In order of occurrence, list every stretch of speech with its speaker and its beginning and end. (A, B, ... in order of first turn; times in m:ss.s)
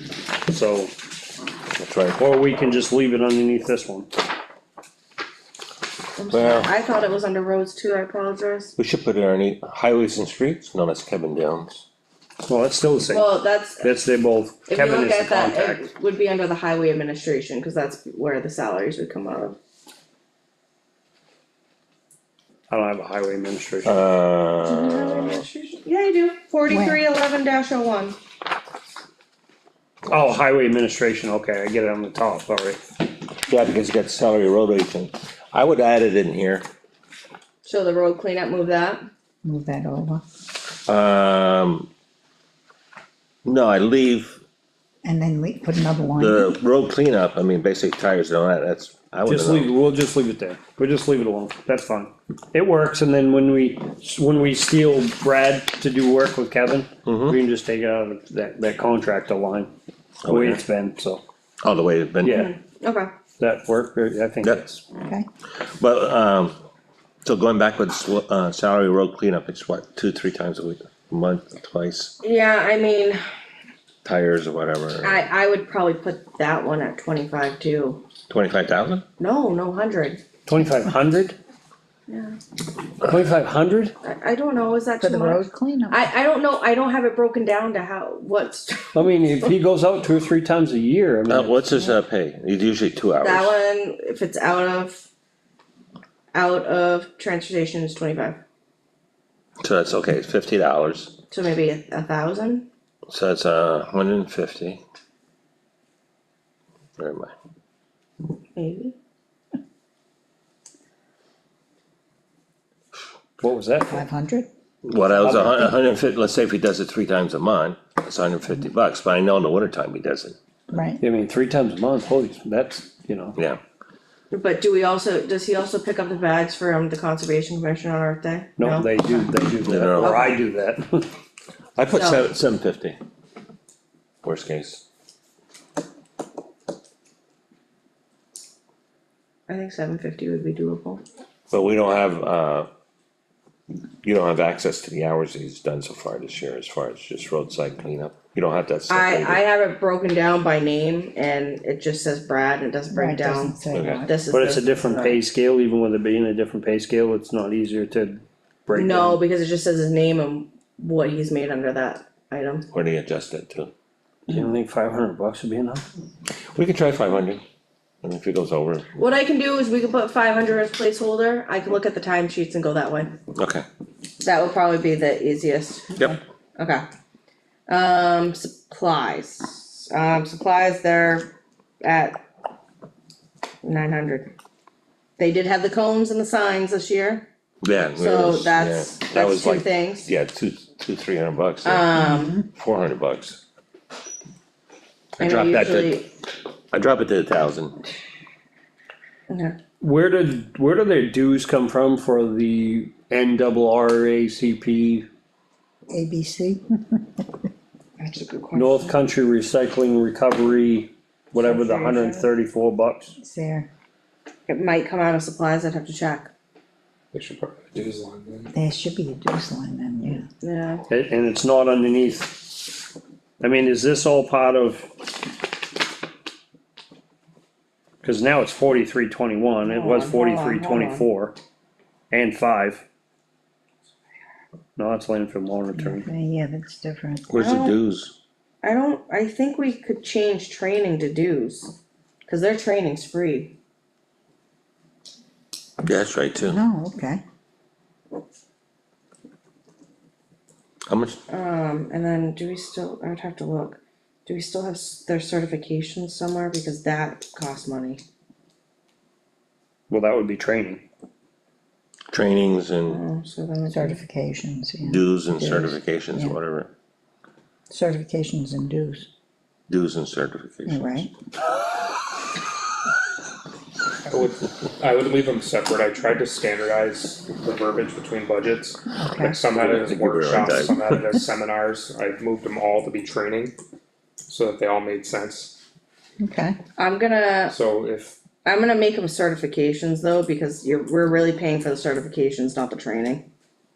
0:00.4-0:00.9 A
0:01.8-0:02.2 B
0:02.2-0:04.1 A
0:06.2-0:08.7 C
0:06.3-0:06.7 B
0:08.8-0:11.8 B
0:12.4-0:15.8 A
0:13.1-0:13.9 C
0:14.7-0:19.6 C
0:22.7-0:24.0 A
0:23.8-0:25.4 B
0:24.6-0:28.2 C
0:26.7-0:27.0 D
0:30.1-0:32.8 A
0:33.4-0:36.7 B
0:37.6-0:39.0 C
0:39.4-0:40.2 D
0:40.8-0:41.9 B
0:43.4-0:44.4 B
0:45.0-0:46.6 D
0:46.2-0:49.7 B
0:49.2-0:59.7 A
0:57.0-0:57.4 B
1:00.2-1:00.6 B
1:00.2-1:01.2 A
1:01.6-1:02.4 B
1:02.2-1:02.5 A
1:02.3-1:03.1 C
1:03.4-1:04.8 A
1:05.0-1:05.3 D
1:05.6-1:06.6 B
1:07.2-1:12.1 B
1:12.2-1:13.2 C
1:14.0-1:15.3 B
1:15.0-1:18.0 C
1:18.3-1:19.0 B
1:19.2-1:20.2 C
1:20.4-1:21.4 A
1:22.1-1:22.4 C
1:23.0-1:23.9 A
1:24.0-1:28.9 C
1:25.0-1:26.1 D
1:28.9-1:31.6 A
1:31.3-1:33.5 B
1:33.2-1:35.1 C
1:36.3-1:38.4 C
1:39.6-1:41.2 B
1:41.3-1:42.7 C
1:43.1-1:44.8 B
1:47.0-1:47.3 B
1:48.6-1:49.0 C
1:53.4-1:54.0 A
1:53.9-1:54.5 D
1:54.8-2:00.4 B
1:55.2-1:55.7 A
2:00.7-2:01.0 D
2:01.0-2:03.4 A
2:04.3-2:09.2 C
2:08.6-2:11.1 A
2:09.6-2:10.4 B
2:10.0-2:10.3 C
2:11.8-2:13.0 B
2:11.9-2:12.3 C
2:14.2-2:14.8 B
2:19.5-2:21.0 C
2:21.5-2:22.7 B
2:24.0-2:29.4 B
2:28.9-2:35.2 C
2:32.9-2:34.2 D
2:33.7-2:34.0 B
2:34.3-2:39.2 A
2:38.7-2:42.7 C
2:42.7-2:43.7 B
2:44.3-2:45.8 A
2:46.5-2:47.4 B
2:48.0-2:48.9 B
2:49.0-2:53.1 C
2:53.4-2:53.6 B
2:54.2-2:56.0 C
2:56.6-2:56.8 C
2:57.7-3:02.2 C
3:03.6-3:04.3 C
3:05.2-3:07.3 C
3:07.6-3:13.4 B
3:08.0-3:10.1 C
3:11.6-3:12.4 C
3:12.1-3:12.4 D
3:15.2-3:16.0 B
3:15.2-3:16.1 C
3:16.7-3:17.8 B
3:19.3-3:19.6 C
3:19.8-3:25.1 A
3:25.9-3:27.3 D
3:28.0-3:28.9 C
3:28.5-3:33.2 A
3:31.5-3:32.2 C
3:33.2-3:33.7 D
3:34.5-3:36.3 C
3:37.1-3:38.5 E
3:38.5-3:40.3 D
3:40.4-3:40.8 C
3:40.9-3:42.7 A
3:43.4-3:44.9 A
3:48.0-3:51.4 A
3:49.6-3:51.1 C
3:52.1-3:52.8 A
3:54.8-3:56.1 A
3:55.7-3:57.3 D
3:57.3-3:58.1 B
3:57.4-3:57.8 C
3:58.6-4:01.7 C
4:02.2-4:03.6 C
4:05.8-4:06.6 B
4:06.4-4:07.2 D
4:10.9-4:11.2 B
4:11.3-4:18.0 C
4:19.9-4:20.8 A
4:22.1-4:23.0 B
4:22.9-4:24.0 C
4:23.7-4:26.4 D
4:24.8-4:26.7 B
4:27.7-4:29.1 D
4:29.7-4:31.1 B
4:30.6-4:31.1 D
4:34.1-4:43.5 E
4:38.9-4:39.4 D
4:39.5-4:41.0 B
4:44.3-4:45.6 E
4:46.2-4:46.6 D
4:46.8-4:47.5 C
4:47.5-4:48.2 E
4:48.4-4:53.3 C